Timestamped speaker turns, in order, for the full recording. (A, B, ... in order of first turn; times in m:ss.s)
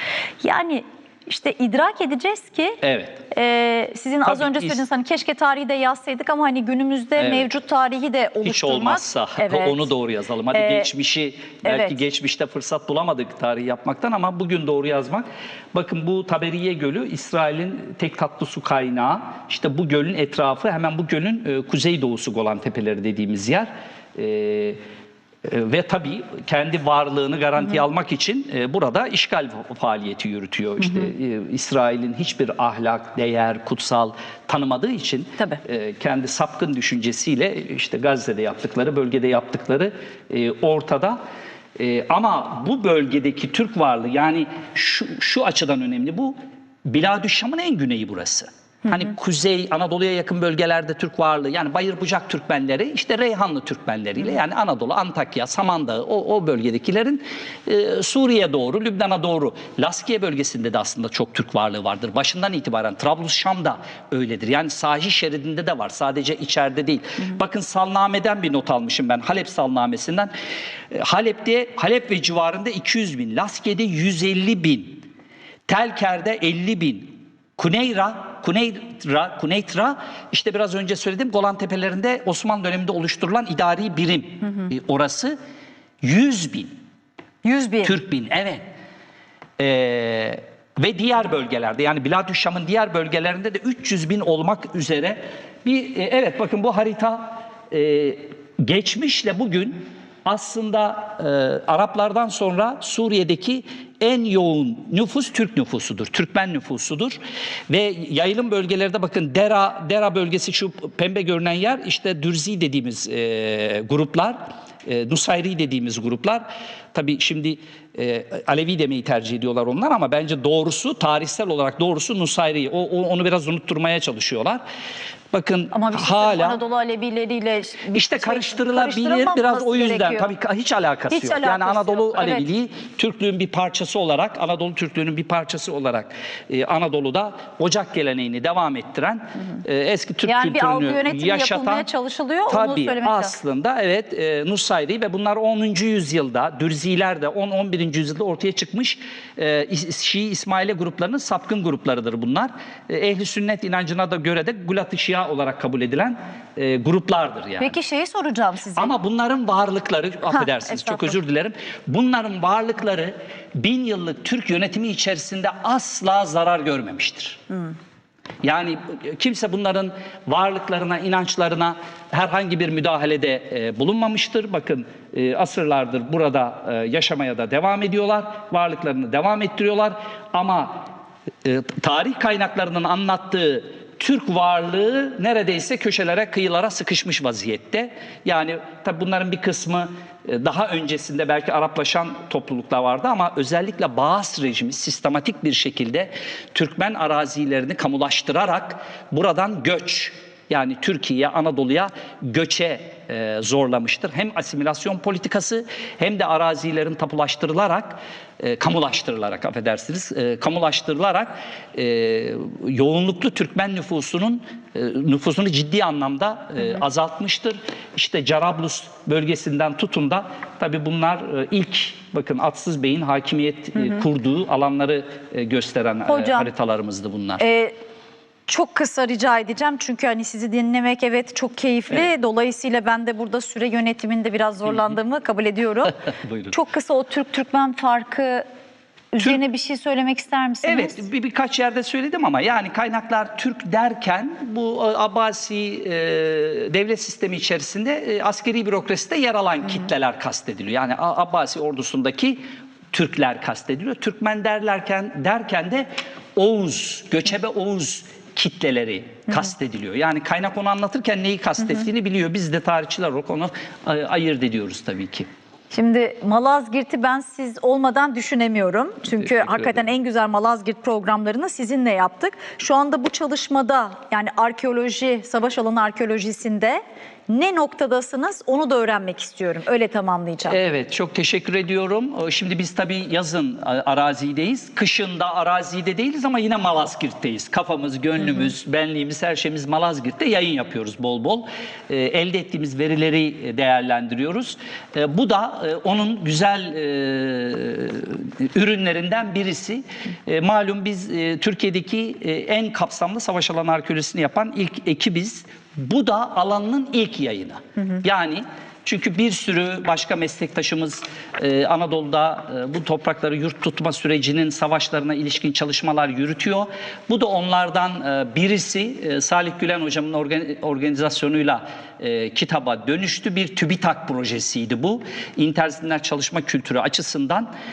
0:00.4-0:09.9 A
0:02.8-0:03.2 B
0:04.2-0:04.8 B
0:07.2-0:07.5 B
0:08.4-0:24.8 B
0:10.5-0:10.9 A
0:11.6-0:11.9 A
0:25.4-0:41.2 B
0:41.8-1:10.3 B
1:10.9-1:15.0 B
1:15.7-1:25.4 B
1:26.0-1:26.7 B
1:27.4-1:28.0 A
1:27.8-1:28.6 B
1:29.6-1:47.2 B
1:47.7-2:04.6 B
2:05.3-2:06.6 B
2:05.7-2:10.3 A
2:07.9-2:21.9 B
2:11.1-2:12.4 A
2:20.2-2:23.3 A
2:22.5-2:37.7 B
2:37.6-2:38.9 A
2:38.8-2:47.4 B
2:40.3-2:41.1 A
2:48.4-3:00.9 B
3:01.4-3:47.4 B
3:46.0-3:46.5 A
3:47.4-3:47.7 A
3:48.5-3:56.0 A
3:56.2-3:56.5 B
3:56.5-3:58.4 A
3:59.1-4:01.0 A
4:00.6-4:12.4 B
4:12.9-4:25.3 B
4:25.7-4:40.6 A
4:40.5-5:27.5 B